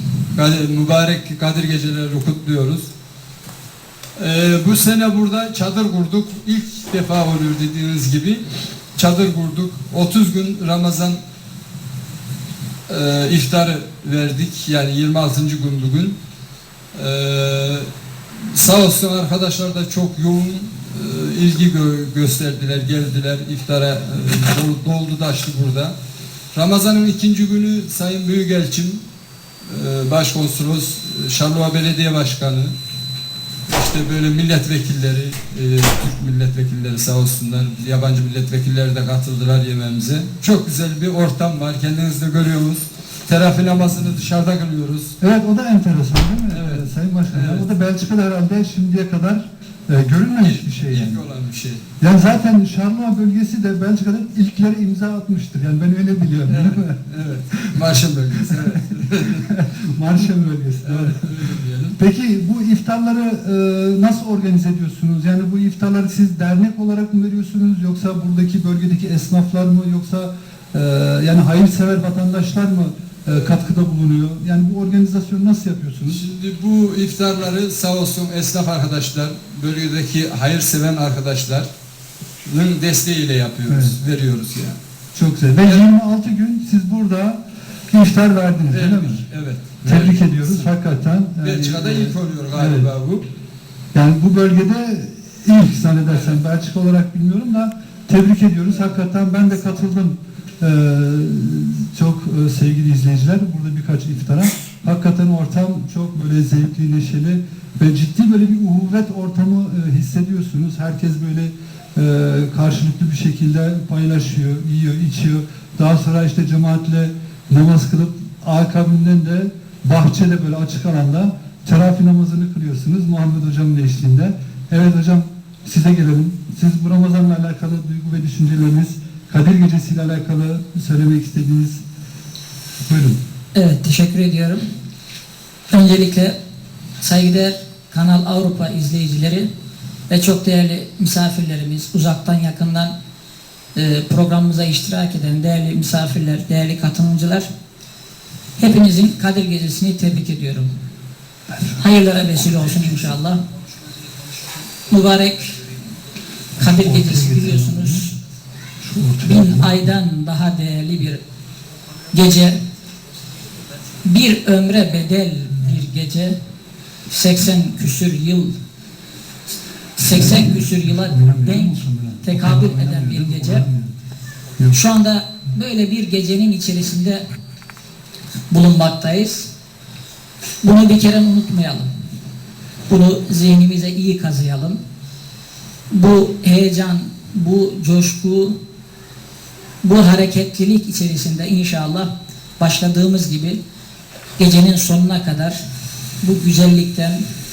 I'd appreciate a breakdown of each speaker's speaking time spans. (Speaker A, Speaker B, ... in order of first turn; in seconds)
Speaker A: 0.3-2.9, 4.2-11.2, 12.9-16.2, 16.9-17.9, 18.5-25.9, 26.5-29.0, 29.6-32.7, 33.7-45.1, 46.5-47.8, 50.4-51.8, 56.5-59.5, 60.8-62.0, 76.1-81.7, 82.4-84.8, 88.7-90.7, 91.4-93.2, 96.1-96.4
Speaker B: 45.2-51.2, 52.0-57.0, 57.5-76.2, 83.7-84.0, 85.1-87.4, 87.9-89.2, 89.8-92.9, 93.9-131.8, 132.9-133.2, 151.5-151.8, 156.6-158.1, 158.8-159.9, 170.1-173.9
Speaker C: 133.5-134.6, 135.7-136.3, 137.0-139.5, 140.1-142.9, 143.7-147.5, 148.6-150.7, 151.8-153.4, 154.9-155.7, 156.6-158.1, 159.2-161.2, 162.1-162.6, 164.0-166.3, 167.1-168.5, 170.0-173.6, 174.7-177.2, 178.5-179.5, 180.6-181.9, 182.9-184.8, 185.9-188.6, 189.8-193.6, 194.4-195.6, 196.2-197.2